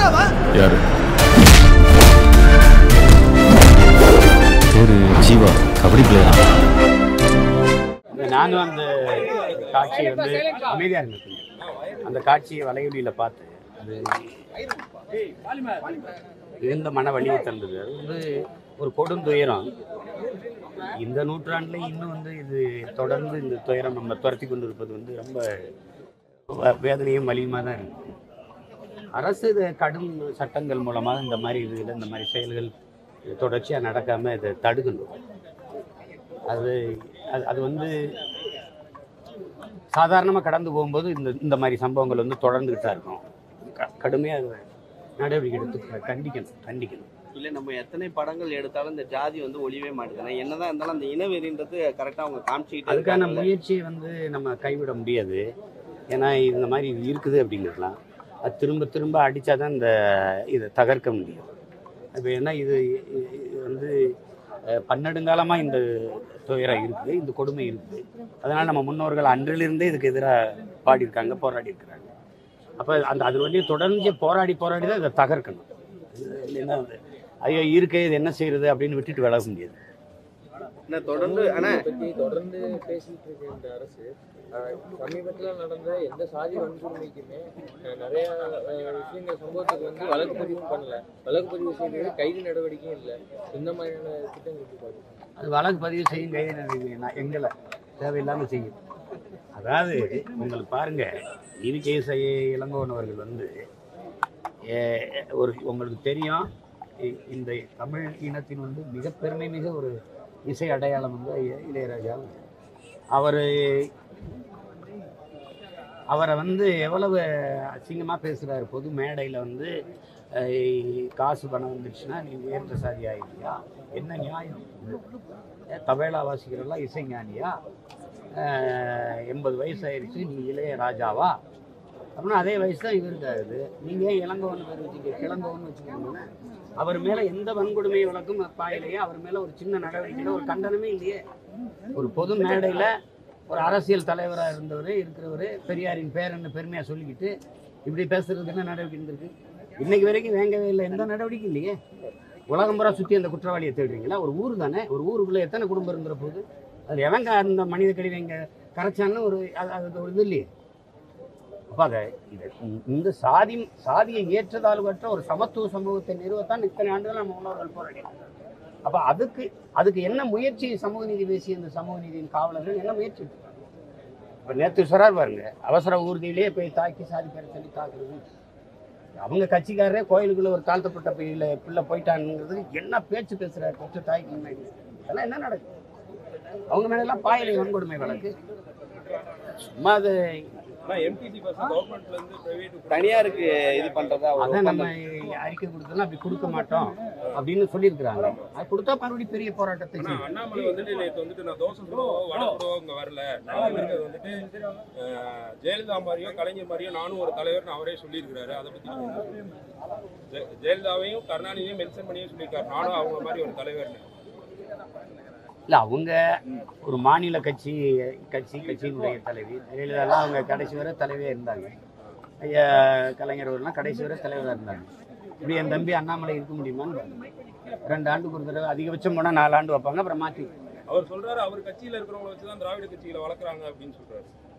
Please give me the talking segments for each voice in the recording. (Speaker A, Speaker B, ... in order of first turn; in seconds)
Speaker A: 0.5-0.8, 4.7-6.5
Speaker B: 8.1-11.4, 12.0-14.5, 16.6-18.2, 18.8-19.7, 20.9-25.4, 26.5-28.0, 29.2-32.7, 33.3-35.1, 36.5-37.9, 39.9-44.6, 45.2-47.1, 52.9-55.4, 56.1-61.5, 62.2-64.0, 64.7-72.1, 72.8-79.8, 95.4-98.8, 99.5-101.1, 101.6-103.5, 104.7-106.5, 107.0-109.9, 110.5-112.4, 113.1-113.9, 116.1-119.7, 120.3-125.0, 125.7-127.5, 128.3-131.3, 132.2-136.2, 136.8-141.2, 141.9-142.9, 143.5-147.3, 147.8-151.8, 152.5-160.5, 161.7-168.1, 168.8-173.5, 174.5-178.2, 179.2-185.7, 186.7-188.3, 189.6-190.5, 194.4-200.2, 215.7-216.2, 216.8-221.7, 222.4-224.9, 225.4-227.2, 227.9-230.5
Speaker C: 9.2-10.1, 11.6-11.9, 190.8-194.3, 198.2-198.5, 200.0-204.3, 204.9-209.3, 210.3-214.0, 230.9-234.3
Speaker D: 47.3-53.5, 80.9-81.8, 192.9-194.9
Speaker E: 81.0-95.1